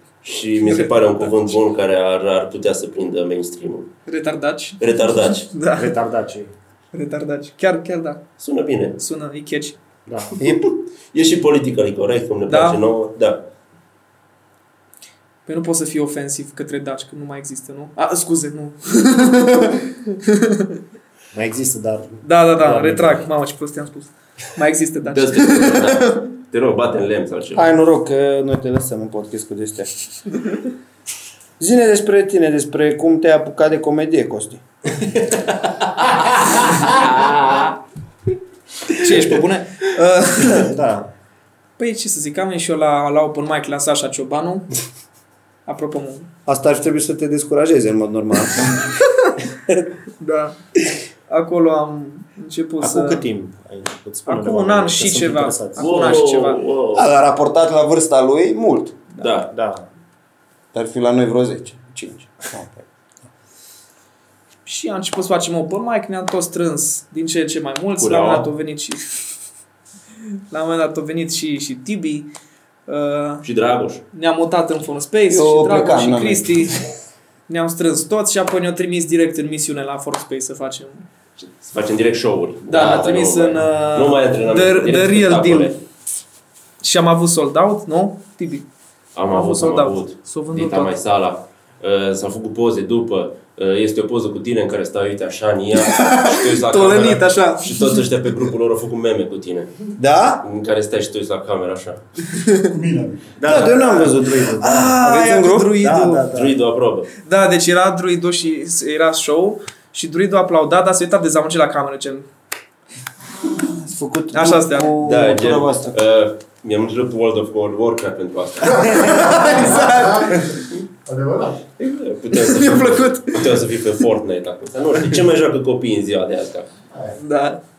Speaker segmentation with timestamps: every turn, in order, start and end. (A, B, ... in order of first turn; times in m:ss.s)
0:00.2-0:03.9 A
0:04.1-0:06.0 B
0:04.8-0:05.5 A
0:05.8-0:06.5 C
0:06.9-0:08.2 B
0:08.4-0:09.0 A
0:09.0-0:09.8 B
0:10.1-0:10.4 C
0:10.4-0:13.4 A
0:12.5-0:12.8 B
0:15.4-0:20.8 B
0:21.3-0:23.3 C
0:22.2-0:26.2 B
0:25.0-0:27.7 A
0:27.5-0:29.9 D
0:31.6-0:34.6 D
0:35.0-0:37.7 A
0:38.9-0:40.7 B
0:40.4-0:41.1 C
0:41.8-0:44.7 B
0:45.6-0:46.3 B
0:46.5-0:48.8 D
0:50.2-0:50.6 B
0:51.3-0:53.2 B
0:52.8-0:56.2 C
0:54.2-0:56.6 B
0:55.8-0:57.1 A
0:56.9-0:59.0 D
0:59.2-0:59.5 A
0:59.5-0:59.8 C
1:00.7-1:02.8 D
1:04.6-1:09.3 B
1:08.0-1:08.5 A
1:10.5-1:12.3 B
1:12.9-1:13.4 B
1:13.4-1:14.0 A
1:14.1-1:16.8 B
1:15.3-1:16.8 D
1:17.5-1:21.0 B
1:21.4-1:25.8 A
1:22.7-1:25.7 B
1:26.8-1:28.6 B
1:29.1-1:39.7 A
1:29.2-1:30.9 B
1:35.7-1:38.0 B
1:40.0-1:40.4 D
1:40.4-1:42.0 A
1:42.3-1:42.6 B
1:42.7-1:43.6 E
1:43.4-1:45.0 C
1:43.4-1:46.2 D
1:44.0-1:46.2 B
1:45.8-1:46.6 C
1:46.3-1:47.1 A
1:47.2-1:52.2 B
1:53.4-1:56.0 D
1:54.3-1:55.0 B
1:55.0-1:59.6 A
1:58.6-2:01.6 E
1:59.0-2:00.3 B
2:01.8-2:06.7 A
2:02.3-2:03.8 B
2:06.9-2:07.2 E
2:07.2-2:07.6 B